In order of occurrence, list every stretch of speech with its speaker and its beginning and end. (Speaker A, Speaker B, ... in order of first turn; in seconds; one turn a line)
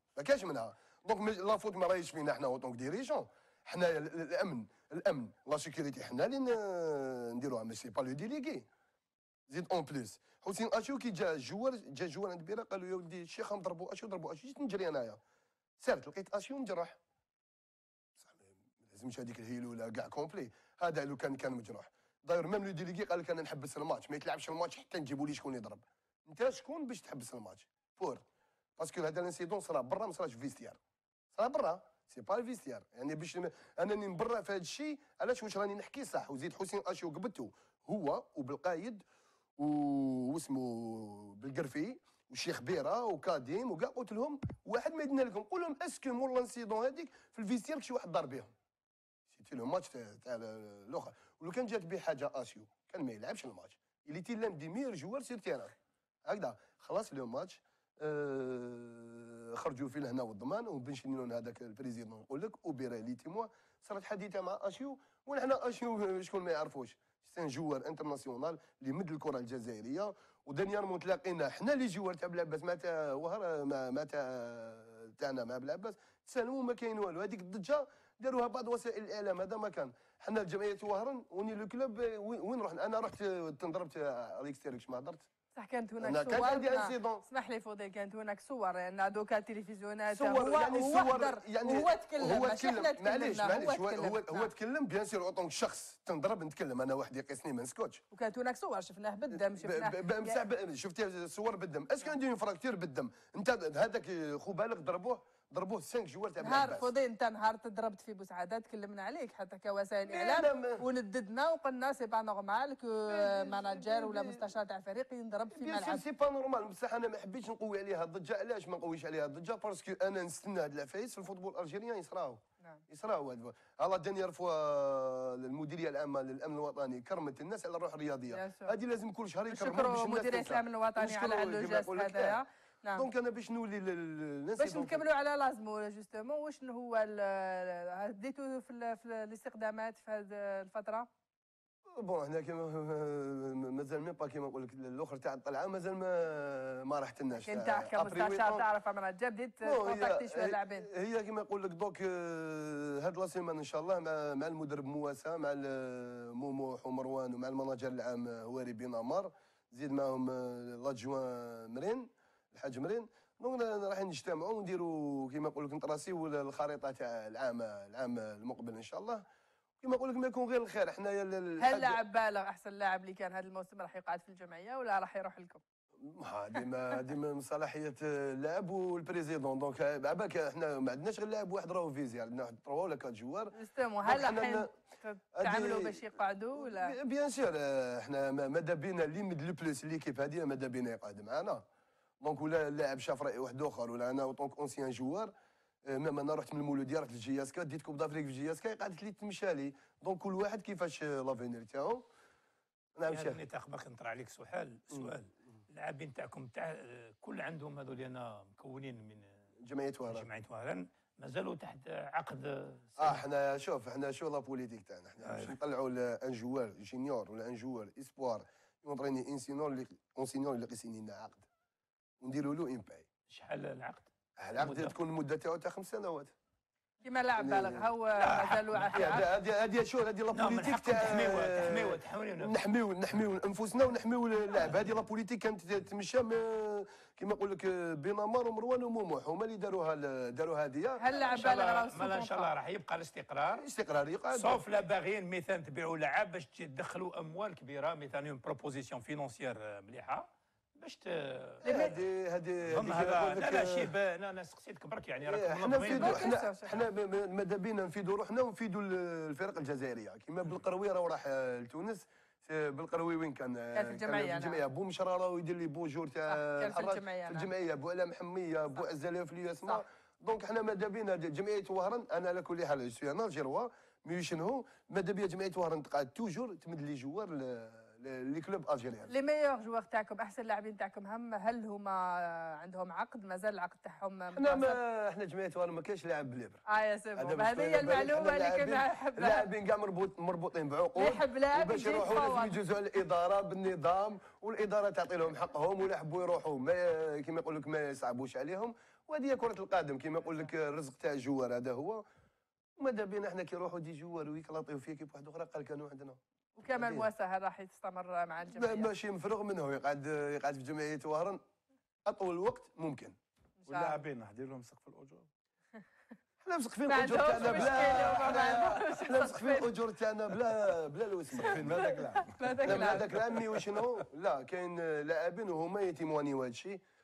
Speaker A: 0.1-8.7
Speaker A: 9.5-15.2
Speaker A: 15.8-17.0
Speaker A: 18.2-28.2
Speaker A: 28.8-30.8
Speaker A: 31.3-39.0
Speaker A: 39.6-48.5
Speaker A: 49.3-55.7
Speaker A: 56.2-85.3
Speaker B: 85.5-94.5
Speaker A: 86.0-87.2
Speaker A: 90.1-98.0
Speaker B: 98.1-100.4
Speaker A: 99.5-106.9
Speaker B: 106.4-116.0
Speaker A: 110.1-110.8
Speaker A: 113.1-114.4
Speaker A: 115.5-132.4
Speaker B: 128.3-128.7
Speaker B: 129.5-133.0
Speaker A: 133.0-135.0
Speaker B: 134.6-141.1
Speaker A: 141.9-148.6
Speaker B: 147.4-150.9
Speaker A: 149.6-169.2
Speaker A: 169.8-172.0
Speaker B: 171.6-175.6
Speaker A: 176.1-183.5
Speaker B: 183.5-186.9
Speaker A: 184.0-184.7
Speaker A: 185.4-191.6
Speaker A: 192.2-195.3
Speaker A: 195.8-202.0
Speaker A: 203.0-203.4
Speaker C: 203.1-209.4
Speaker A: 209.6-210.3
Speaker C: 210.1-213.2
Speaker A: 213.0-221.4
Speaker C: 215.2-215.6
Speaker A: 222.2-223.1
Speaker C: 223.3-224.9
Speaker A: 224.4-226.3
Speaker B: 227.0-229.2
Speaker A: 227.4-227.8
Speaker C: 228.2-229.2
Speaker A: 228.8-241.1
Speaker C: 230.3-232.5
Speaker B: 241.0-242.5
Speaker C: 241.2-243.7
Speaker A: 243.5-244.6
Speaker C: 244.3-250.2
Speaker C: 250.8-251.9
Speaker B: 251.6-251.9
Speaker A: 251.6-253.9
Speaker C: 252.7-256.4
Speaker A: 255.2-279.1
Speaker B: 255.8-256.8
Speaker B: 263.7-264.6
Speaker B: 266.3-267.5
Speaker B: 279.1-284.8
Speaker A: 284.4-286.6
Speaker B: 286.7-289.5
Speaker A: 287.2-302.0
Speaker B: 291.0-292.6
Speaker A: 302.8-306.2
Speaker B: 306.6-308.9
Speaker A: 306.7-307.1
Speaker A: 308.5-311.4
Speaker A: 312.1-313.1
Speaker B: 313.6-313.9
Speaker D: 313.7-315.3
Speaker A: 316.4-321.9
Speaker B: 316.9-319.7
Speaker D: 317.1-318.9
Speaker B: 321.4-323.1
Speaker D: 321.4-323.8
Speaker A: 322.6-326.8